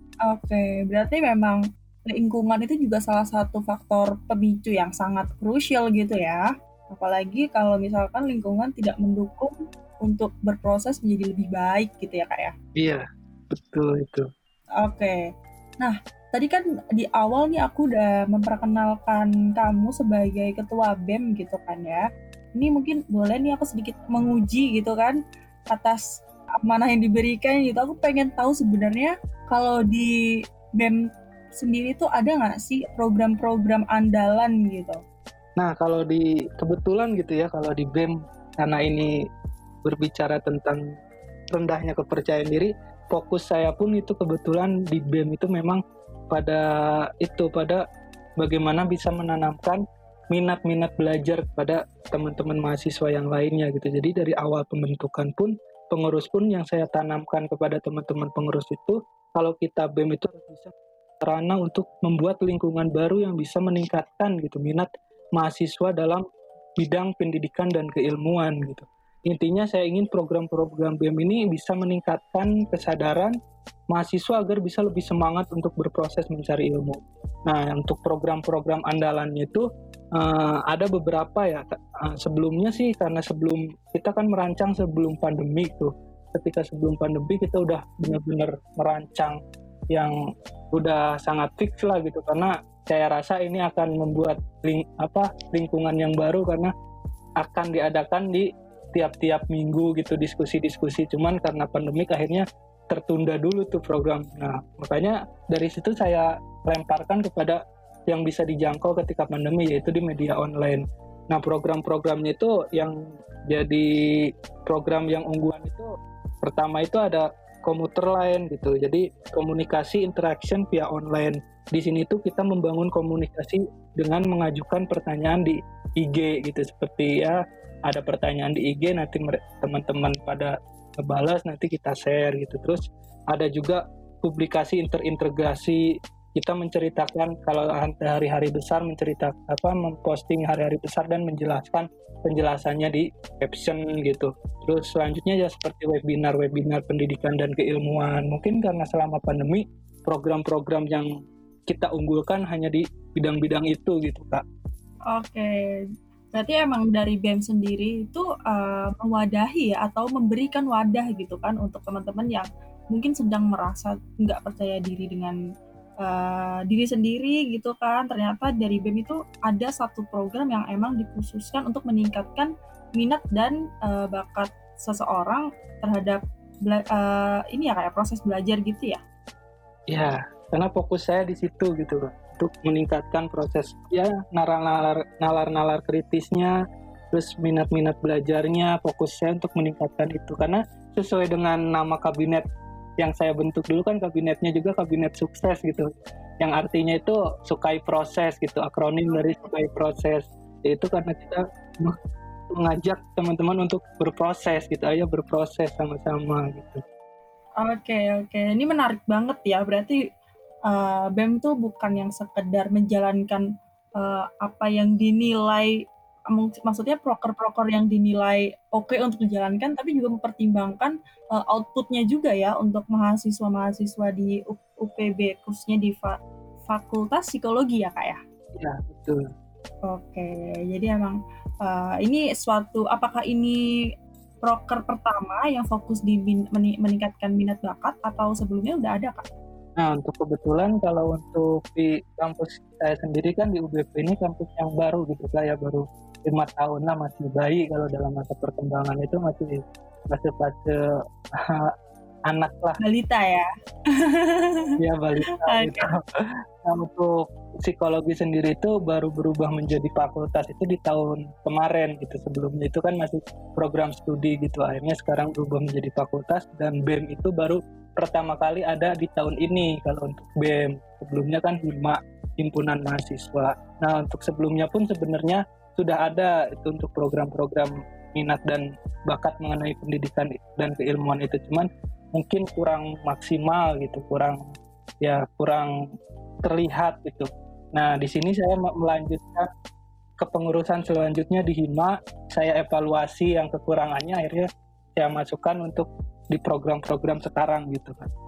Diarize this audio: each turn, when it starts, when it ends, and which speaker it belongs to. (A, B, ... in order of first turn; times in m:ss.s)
0:00.3-0:12.5 A
0:12.8-0:14.3 B
0:14.8-0:15.2 A
0:15.8-0:22.0 A
0:22.6-0:25.2 A
0:25.7-0:26.0 A
0:26.6-0:30.1 A
0:31.6-0:35.0 A
0:35.6-0:39.1 B
0:39.8-0:40.8 B
0:41.5-0:46.7 B
0:47.2-0:47.8 B
0:48.4-1:06.2 B
1:06.8-1:13.4 B
1:13.9-1:19.7 B
1:20.2-1:29.4 B
1:30.7-1:36.7 B
1:37.4-1:53.0 B
1:53.5-1:53.9 B
1:54.7-1:55.9 B
1:56.4-2:15.8 B
2:16.4-2:31.1 B
2:31.7-2:34.4 B
2:35.1-2:35.7 A
2:36.3-2:45.4 A
2:46.0-2:59.0 A
2:59.9-3:06.6 B
3:07.1-3:12.4 B
3:13.0-3:15.9 B
3:16.4-3:22.0 B
3:22.6-3:26.8 B
3:27.6-3:30.0 A
3:30.7-3:33.4 A
3:34.0-3:35.7 A
3:36.3-3:46.2 A
3:46.7-3:48.2 A
3:48.6-3:49.2 B
3:49.9-3:53.6 A
3:54.4-3:59.2 A
3:59.8-4:10.8 B
4:11.4-4:11.7 B
4:12.3-4:12.8 B
4:12.8-4:14.7 A
4:14.8-4:16.0 B
4:15.4-4:15.8 A
4:16.6-4:44.4 B
4:45.0-4:45.7 B
4:46.4-4:49.5 B
4:50.2-4:58.1 B